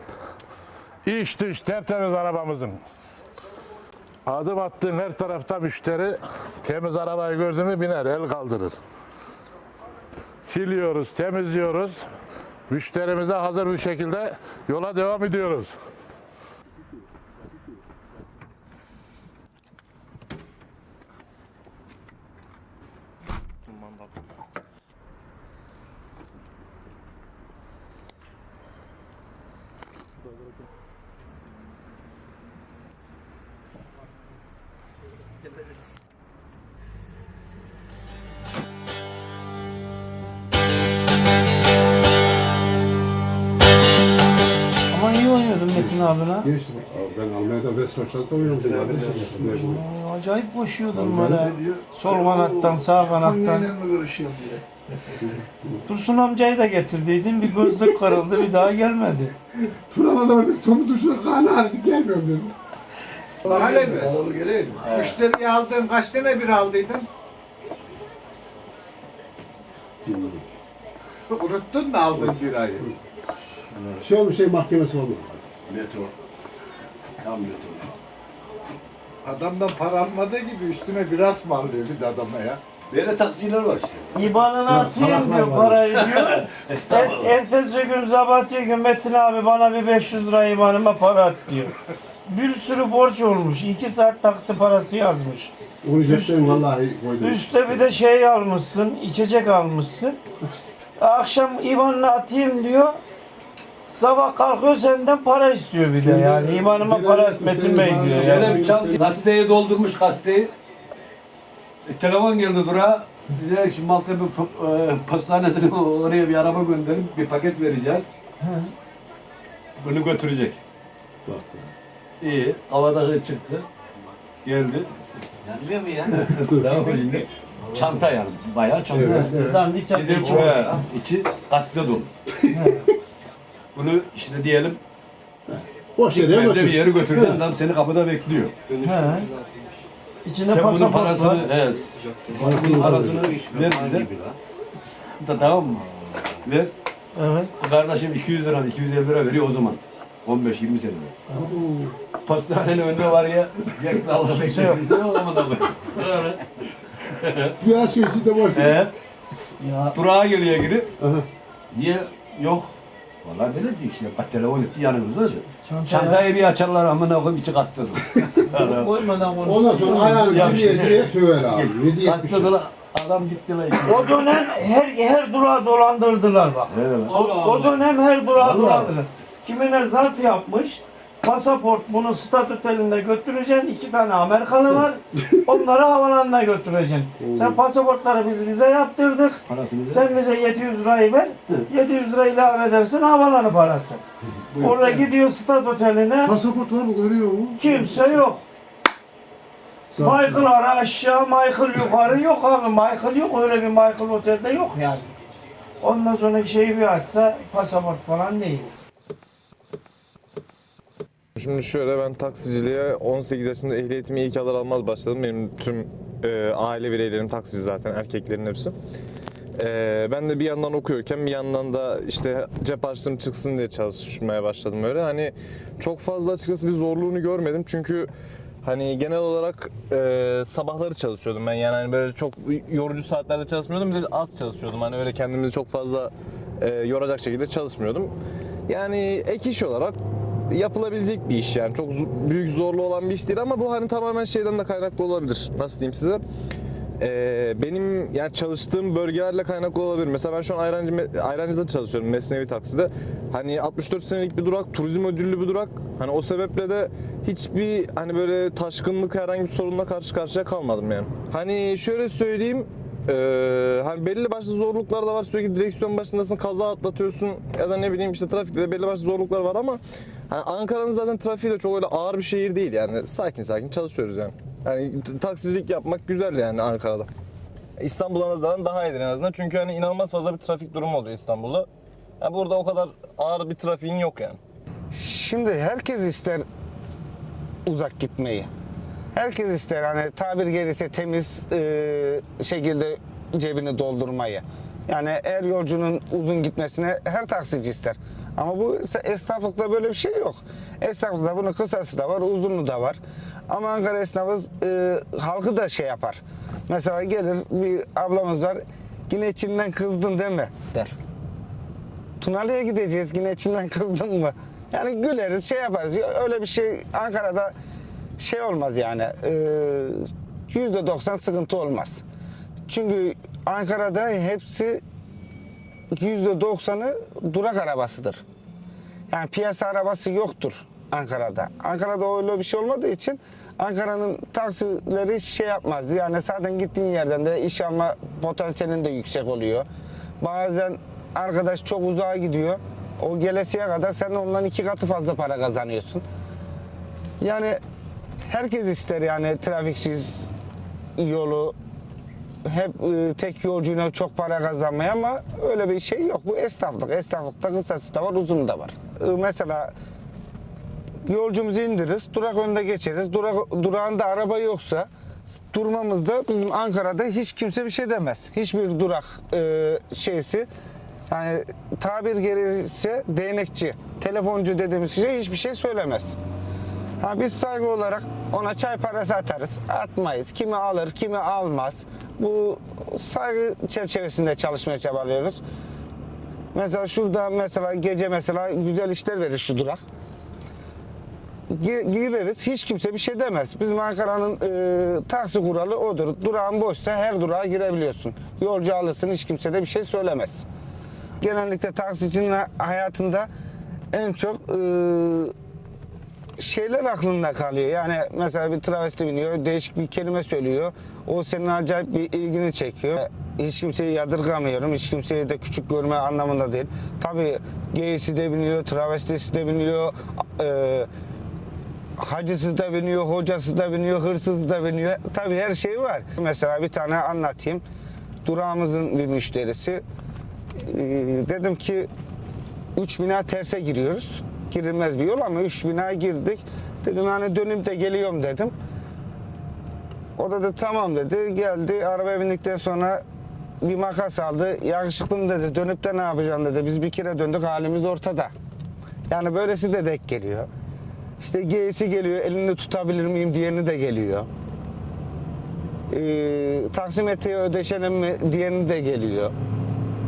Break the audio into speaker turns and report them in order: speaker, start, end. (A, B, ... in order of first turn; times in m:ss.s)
0:01.0-0:02.8 A
0:04.3-0:08.8 A
0:10.4-0:12.1 A
0:12.7-0:15.7 A
0:23.7-0:24.1 B
0:44.9-0:46.5 C
0:45.8-0:49.8 D
0:48.5-0:49.4 E
0:49.4-0:53.8 C
0:50.9-0:51.6 D
0:53.4-0:53.7 F
0:55.9-0:59.4 C
0:59.7-1:02.5 D
1:03.4-1:04.2 D
1:03.4-1:07.1 F
1:04.8-1:05.2 E
1:10.0-1:10.4 D
1:11.3-1:12.9 F
1:12.1-1:12.8 D
1:14.0-1:15.4 D
1:15.7-1:16.1 E
1:17.2-1:17.9 E
1:19.2-1:22.6 F
1:22.9-1:24.4 E
1:24.1-1:35.5 C
1:24.7-1:25.8 D
1:25.9-1:27.4 E
1:35.8-1:37.9 D
1:36.1-1:36.4 C
1:37.2-1:40.2 C
1:41.0-1:43.0 C
1:43.9-1:49.0 C
1:46.0-1:49.0 D
1:48.2-1:50.5 E
1:51.9-1:58.1 E
1:58.4-1:58.7 C
1:59.8-2:00.6 E
2:01.3-2:01.6 D
2:02.2-2:03.7 E
2:04.4-2:12.1 E
2:06.2-2:06.8 D
2:08.9-2:09.7 D
2:09.0-2:10.8 C
2:12.5-2:12.9 C
2:13.8-2:14.8 E
2:15.5-2:17.4 D
2:16.1-2:19.2 E
2:18.8-2:19.3 C
2:20.2-2:21.5 C
2:20.5-2:24.3 E
2:22.3-2:23.4 D
2:25.2-2:26.7 E
2:27.2-2:27.5 C
2:27.6-2:31.2 E
2:31.3-2:31.9 D
2:32.2-2:37.6 E
2:34.5-2:35.0 C
2:37.6-2:38.8 D
2:38.5-2:38.9 E
2:39.6-2:40.0 C
2:39.9-2:40.9 E
2:41.0-2:41.2 D
2:41.7-2:49.1 E
2:45.6-2:46.3 C
2:48.4-2:50.5 C
2:49.4-2:52.6 D
2:50.2-2:54.4 E
2:53.8-3:14.0 C
2:56.7-2:57.8 E
2:58.4-2:58.9 E
3:07.2-3:07.6 D
3:09.5-3:10.2 E
3:14.4-3:15.0 E
3:14.6-3:16.4 C
3:16.3-3:17.8 D
3:17.6-3:18.4 C
3:20.0-3:20.4 D
3:20.0-3:25.1 C
3:25.8-3:28.7 C
3:31.4-3:38.8 B
3:39.6-3:48.1 B
3:48.6-3:58.1 B
3:58.7-4:00.0 B
4:00.5-4:06.2 B
4:07.0-4:37.1 B
4:37.8-4:41.7 B
4:42.2-4:44.4 B
4:44.9-4:46.4 G
4:47.7-4:48.5 G
4:49.1-5:10.9 G
5:12.2-5:17.5 G
5:18.2-5:22.0 G
5:22.7-5:24.8 G
5:25.9-5:28.2 G
5:29.1-5:39.7 G
5:40.2-5:46.0 G
5:47.2-5:47.6 G
5:48.2-5:50.3 G
5:51.0-5:51.6 G
5:52.4-5:59.7 G
6:01.1-6:04.9 G
6:05.5-6:10.5 G
6:11.1-6:16.2 G
6:17.0-6:25.4 G
6:26.5-6:29.8 G
6:31.5-6:40.5 G
6:41.2-6:43.3 G
6:43.9-6:45.3 G
6:46.4-7:00.9 G
7:02.0-7:07.6 G
7:08.2-7:09.8 G
7:10.6-7:11.9 G
7:12.8-7:18.6 G
7:20.2-7:23.0 G
7:23.6-7:28.3 G
7:29.1-7:30.5 G
7:31.2-7:34.3 G
7:35.9-7:39.3 G